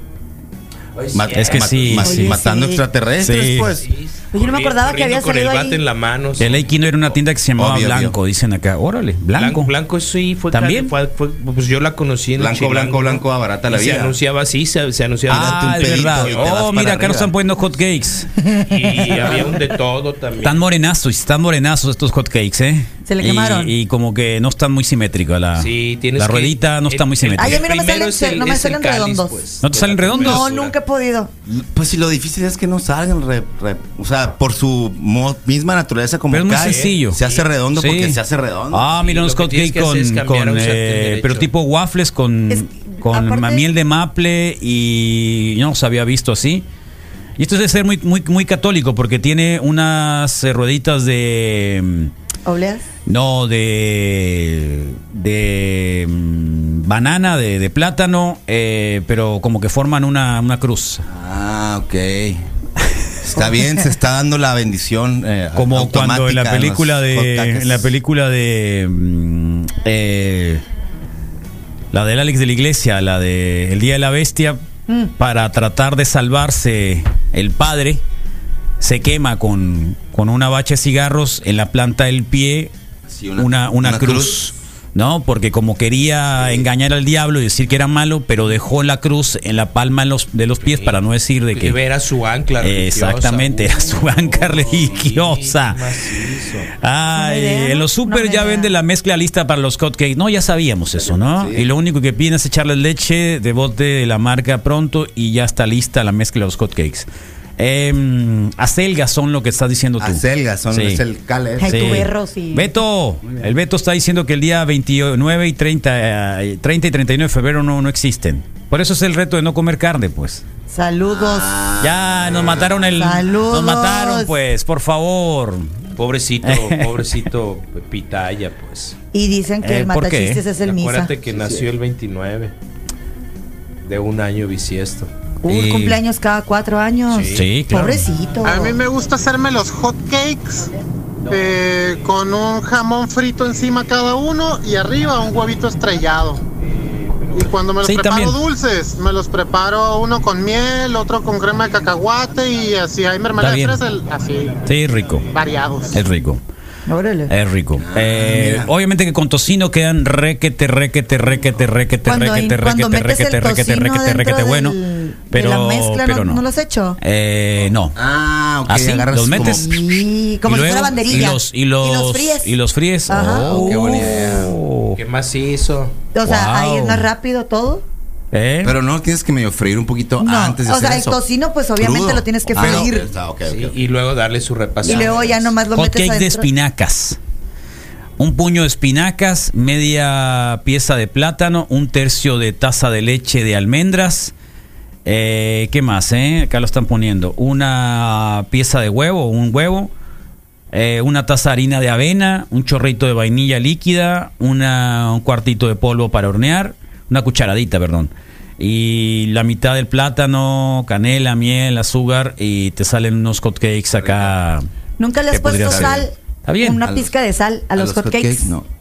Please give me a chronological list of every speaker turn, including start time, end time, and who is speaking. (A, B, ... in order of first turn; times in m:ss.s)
0:01.0-0:02.0 A
0:01.1-0:03.9 B
0:01.3-0:02.4 C
0:02.0-0:02.8 D
0:03.2-0:03.7 C
0:03.8-0:06.7 A
0:04.3-0:05.8 D
0:06.4-0:09.7 C
0:07.6-0:08.2 B
0:09.3-0:16.9 A
0:10.5-0:10.9 C
0:12.4-0:14.2 B
0:15.3-0:17.3 B
0:15.3-0:18.3 C
0:18.4-0:18.7 D
0:18.7-0:20.6 A
0:20.4-0:27.7 C
0:23.0-0:23.7 D
0:25.6-0:30.7 A
0:27.4-0:29.3 D
0:29.6-0:30.5 C
0:30.1-0:31.3 D
0:31.4-0:38.9 B
0:36.3-0:37.2 C
0:36.5-0:37.4 A
0:37.8-0:38.2 C
0:38.7-0:46.6 C
0:39.0-0:41.5 A
0:42.5-0:43.6 D
0:47.4-0:52.1 C
0:52.4-0:52.8 D
0:53.1-1:01.0 C
1:01.0-1:02.4 B
1:03.2-1:07.9 B
1:05.5-1:10.6 C
1:11.9-1:14.6 C
1:15.2-1:18.0 C
1:18.8-1:22.7 C
1:23.1-1:24.4 B
1:23.4-1:31.8 C
1:26.4-1:26.6 B
1:30.6-1:31.0 A
1:31.5-1:36.7 A
1:32.6-1:35.9 C
1:36.8-1:47.1 C
1:37.1-1:38.7 D
1:40.9-1:41.7 B
1:47.6-1:51.0 C
1:50.0-1:52.0 B
1:51.6-1:52.7 D
1:51.6-2:00.4 C
2:00.7-2:01.6 D
2:01.1-2:02.9 B
2:01.8-2:05.7 C
2:02.9-2:04.3 D
2:06.0-2:09.0 A
2:06.4-2:07.1 C
2:09.1-2:11.1 D
2:09.6-2:10.4 C
2:10.6-2:12.5 A
2:11.4-2:11.6 B
2:13.8-2:15.1 A
2:15.4-2:18.8 D
2:15.5-2:16.0 C
2:17.1-2:17.4 A
2:17.3-2:18.0 C
2:18.4-2:20.7 E
2:21.3-2:26.4 E
2:27.3-2:34.6 E
2:27.8-2:28.4 C
2:33.4-2:33.8 C
2:34.6-2:35.2 C
2:35.3-2:36.0 E
2:35.9-2:36.4 C
2:36.9-2:37.3 D
2:37.3-2:44.8 C
2:37.8-2:38.7 B
2:42.0-2:47.0 D
2:45.3-2:46.4 C
2:47.0-2:47.9 C
2:47.9-2:49.8 B
2:48.7-2:49.8 C
2:49.3-2:52.5 D
2:50.4-2:55.0 C
2:53.1-2:53.9 D
2:53.3-2:54.6 B
2:55.0-2:55.9 A
2:56.1-2:57.8 D
2:56.2-2:57.1 C
2:58.3-2:58.7 C
2:58.6-3:01.2 B
3:00.2-3:03.0 D
3:01.8-3:03.7 B
3:02.6-3:02.8 C
3:03.5-3:05.5 A
3:04.8-3:06.5 D
3:05.7-3:07.2 C
3:08.2-3:14.3 C
3:15.0-3:19.9 C
3:20.7-3:34.6 C
3:34.0-3:34.4 B
3:35.0-3:38.5 D
3:35.3-3:36.8 C
3:35.6-3:36.0 B
3:36.8-3:37.1 B
3:37.7-3:38.6 B